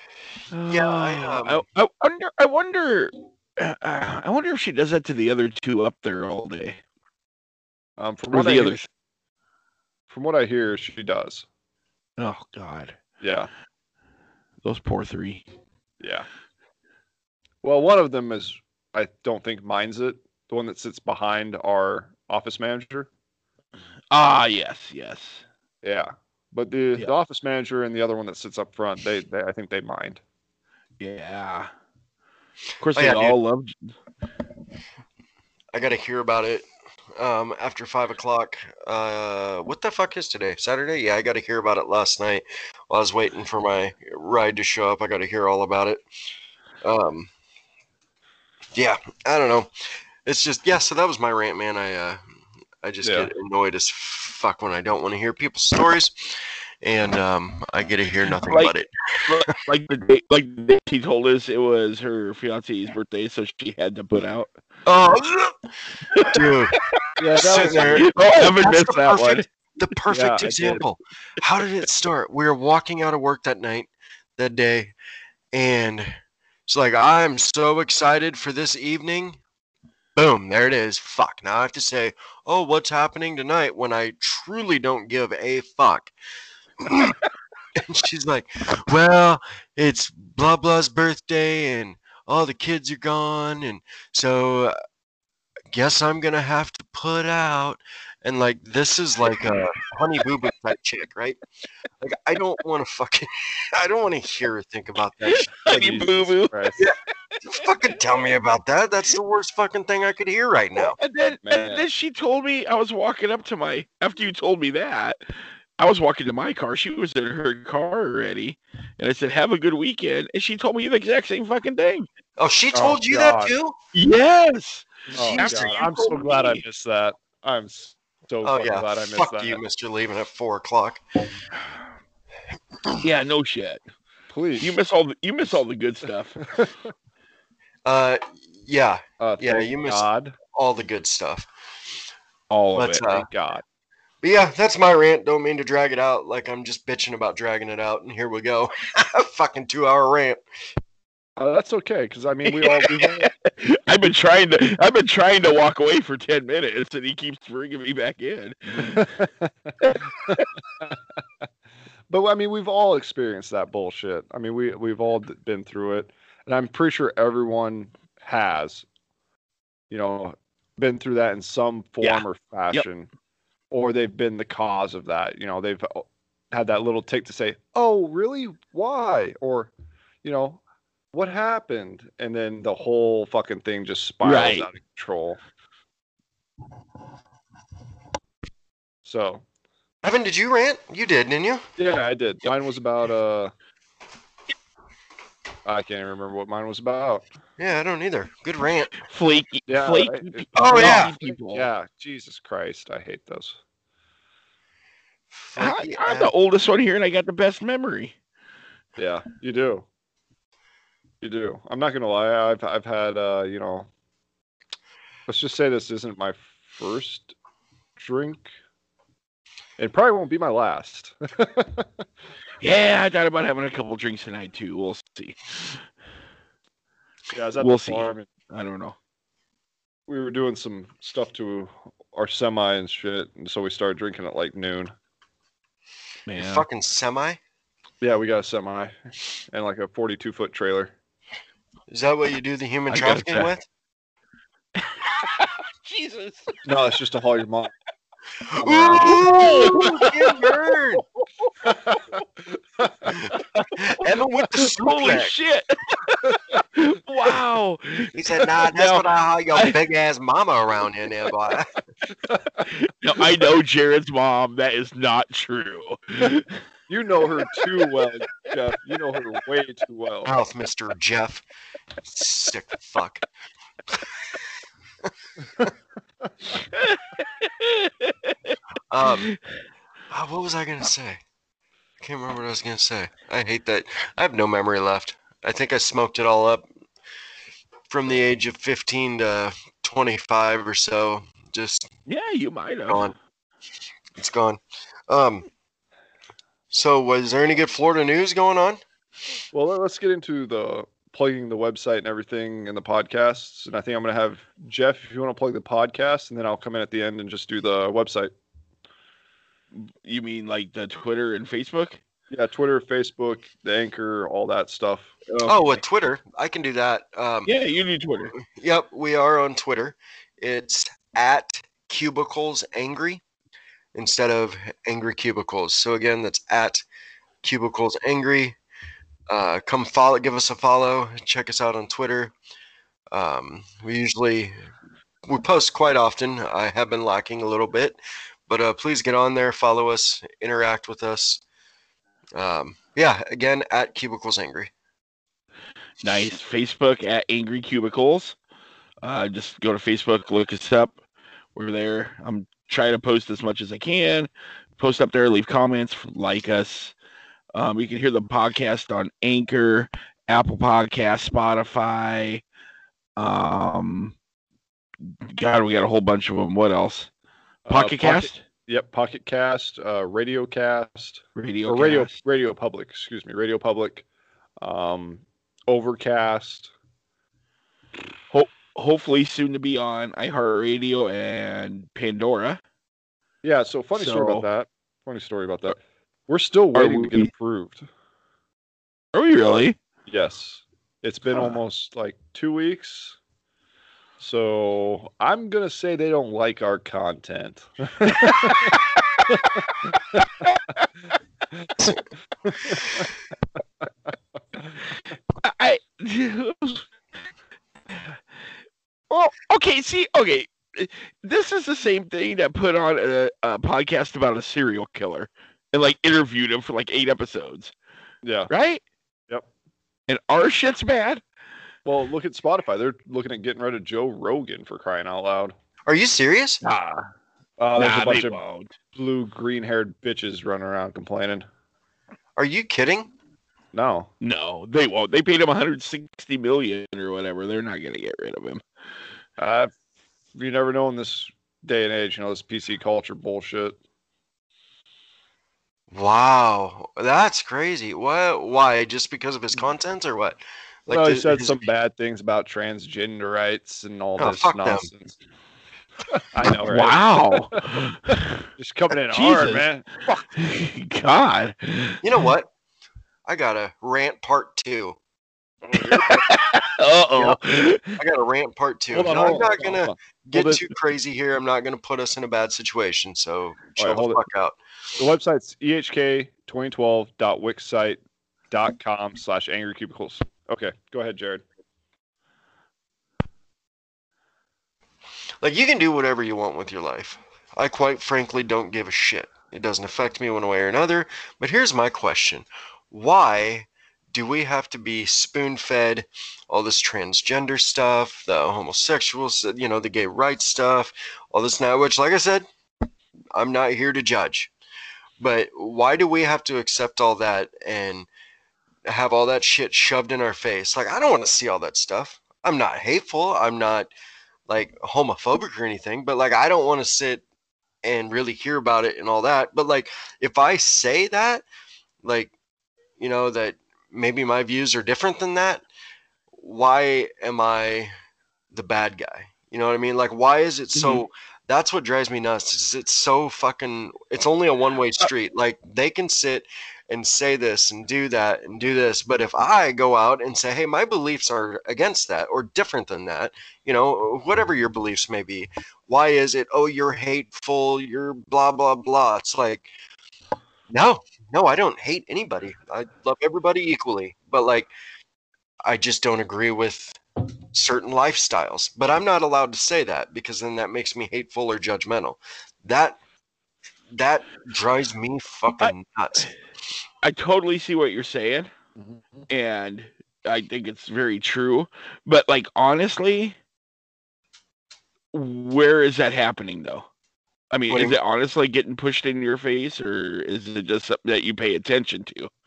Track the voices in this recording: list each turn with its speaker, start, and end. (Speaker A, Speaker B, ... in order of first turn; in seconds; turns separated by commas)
Speaker A: 0.5-6.8, Speaker B: 0.7-1.6, Speaker C: 8.0-8.8, Speaker A: 8.3-8.9, Speaker C: 10.1-11.4, Speaker A: 12.2-13.0, Speaker C: 13.2-13.5, Speaker A: 14.6-15.4, Speaker C: 16.0-16.3, Speaker C: 17.6-23.1, Speaker A: 24.1-25.4, Speaker C: 25.8-30.2, Speaker A: 31.0-31.7, Speaker A: 32.8-33.9, Speaker B: 32.9-33.4, Speaker B: 35.7-46.0, Speaker B: 46.8-47.3, Speaker B: 48.7-49.7, Speaker B: 50.2-52.2, Speaker B: 52.8-59.4, Speaker C: 53.0-53.3, Speaker A: 58.4-58.7, Speaker A: 59.2-64.5, Speaker B: 64.8-65.5, Speaker A: 66.1-69.4, Speaker B: 66.2-66.8, Speaker C: 67.2-68.1, Speaker B: 67.4-74.9, Speaker C: 70.1-70.8, Speaker B: 75.5-76.1, Speaker B: 76.7-79.4, Speaker B: 80.2-86.1, Speaker B: 86.8-87.2, Speaker B: 87.8-94.7, Speaker B: 95.7-101.4, Speaker B: 102.0-105.5, Speaker A: 105.2-106.7, Speaker C: 105.7-106.9, Speaker A: 107.3-107.7, Speaker B: 107.5-111.0, Speaker A: 110.8-115.2, Speaker C: 111.4-111.8, Speaker A: 115.8-122.1, Speaker B: 122.4-123.8, Speaker C: 122.7-123.5, Speaker A: 123.9-126.6, Speaker B: 125.1-125.9, Speaker C: 125.1-129.6, Speaker B: 128.4-131.0, Speaker A: 133.0-133.8, Speaker C: 134.3-134.7, Speaker A: 134.6-136.5, Speaker C: 136.5-136.7, Speaker B: 137.8-141.5, Speaker C: 139.2-140.3, Speaker C: 142.5-143.6, Speaker B: 142.7-143.3, Speaker B: 144.2-150.4, Speaker C: 151.4-153.3, Speaker A: 152.5-159.0, Speaker C: 158.9-159.7, Speaker A: 159.8-160.5, Speaker C: 160.3-160.9, Speaker C: 162.1-168.8, Speaker C: 169.9-173.1, Speaker A: 172.0-172.8, Speaker C: 173.7-180.6, Speaker C: 181.1-185.4, Speaker A: 184.2-184.7, Speaker C: 189.0-189.4, Speaker B: 190.0-191.6, Speaker C: 191.8-193.5, Speaker C: 195.6-197.2, Speaker B: 197.6-199.0, Speaker A: 199.1-201.7, Speaker C: 199.7-203.6, Speaker B: 200.6-201.1, Speaker B: 205.3-206.3, Speaker A: 205.6-208.1, Speaker C: 209.0-209.8, Speaker C: 211.2-213.9, Speaker C: 215.3-217.3, Speaker C: 218.0-218.5, Speaker C: 219.8-222.0, Speaker A: 222.6-225.8, Speaker C: 227.3-228.3, Speaker A: 227.6-228.9, Speaker C: 230.1-234.9, Speaker A: 236.3-236.7, Speaker B: 236.4-237.4, Speaker C: 238.0-238.9, Speaker C: 239.5-240.9, Speaker B: 241.9-243.7, Speaker A: 242.9-243.5, Speaker A: 244.8-246.6, Speaker C: 246.6-247.7, Speaker B: 248.5-251.0, Speaker C: 248.6-249.2, Speaker A: 249.0-251.9, Speaker C: 251.6-252.2, Speaker C: 252.8-253.3, Speaker B: 253.2-255.3, Speaker A: 254.0-259.8, Speaker C: 256.3-256.6, Speaker B: 258.1-261.7, Speaker C: 262.3-262.7, Speaker A: 262.7-266.5, Speaker C: 266.9-270.3, Speaker B: 270.2-271.4, Speaker B: 272.0-273.2, Speaker A: 276.7-278.6, Speaker B: 278.9-279.3, Speaker A: 279.1-279.4, Speaker B: 280.1-281.2, Speaker B: 282.0-286.6, Speaker B: 287.9-291.9, Speaker A: 292.1-293.1, Speaker B: 292.9-293.1, Speaker B: 294.1-295.4, Speaker B: 296.7-298.8, Speaker C: 299.5-308.3, Speaker A: 309.7-312.0, Speaker C: 312.3-315.1, Speaker A: 315.3-315.6, Speaker B: 315.4-317.5, Speaker A: 317.4-318.3, Speaker B: 318.4-323.2, Speaker B: 323.9-326.8, Speaker B: 327.4-328.6, Speaker B: 329.3-332.3, Speaker B: 333.1-334.5, Speaker B: 335.2-341.4, Speaker B: 342.3-344.7, Speaker A: 346.0-348.4, Speaker A: 349.0-350.9, Speaker A: 351.6-356.9, Speaker A: 357.5-362.4, Speaker A: 363.2-364.1, Speaker A: 365.2-367.1, Speaker C: 367.6-374.0, Speaker A: 367.7-368.4, Speaker A: 371.4-372.1, Speaker C: 374.6-376.7, Speaker A: 378.3-382.6, Speaker C: 383.4-385.8, Speaker A: 383.9-384.4, Speaker C: 386.3-387.9, Speaker A: 386.7-387.3, Speaker A: 389.1-389.8, Speaker C: 390.1-393.2, Speaker C: 394.2-400.5, Speaker A: 398.2-399.0, Speaker C: 402.5-403.1, Speaker A: 405.4-406.9, Speaker A: 409.1-417.7, Speaker C: 418.2-418.5, Speaker A: 418.5-418.8, Speaker A: 420.1-421.2, Speaker C: 421.8-425.5, Speaker B: 425.9-426.6, Speaker A: 426.6-427.1, Speaker C: 427.6-428.4, Speaker A: 427.8-428.7, Speaker C: 428.9-431.4, Speaker B: 432.4-433.1, Speaker C: 433.7-434.1, Speaker A: 434.2-438.6, Speaker C: 439.4-439.7, Speaker C: 440.3-443.8, Speaker B: 445.9-451.6, Speaker C: 450.9-455.2, Speaker B: 454.2-454.9, Speaker C: 456.3-460.2, Speaker A: 456.6-458.4, Speaker A: 459.1-459.6, Speaker A: 460.3-462.1, Speaker B: 462.0-462.5, Speaker B: 463.2-465.0, Speaker B: 465.7-466.2, Speaker A: 465.9-468.0, Speaker B: 467.9-474.6, Speaker C: 468.9-470.6, Speaker C: 473.8-474.2, Speaker C: 475.0-478.0, Speaker C: 478.5-481.4, Speaker B: 485.4-502.5, Speaker B: 503.3-504.5, Speaker B: 505.2-508.1, Speaker B: 508.9-513.9, Speaker B: 514.5-517.2, Speaker B: 517.8-521.4, Speaker B: 522.0-522.3, Speaker B: 523.0-525.6, Speaker B: 526.3-527.9, Speaker B: 528.5-549.7, Speaker A: 530.7-531.0, Speaker B: 550.7-554.7, Speaker B: 555.6-557.0, Speaker B: 557.5-563.0, Speaker B: 563.9-566.3, Speaker A: 565.6-566.3, Speaker A: 567.0-568.5, Speaker C: 568.8-569.2, Speaker A: 569.3-573.4, Speaker A: 575.1-576.9, Speaker A: 577.5-582.3, Speaker B: 577.7-578.0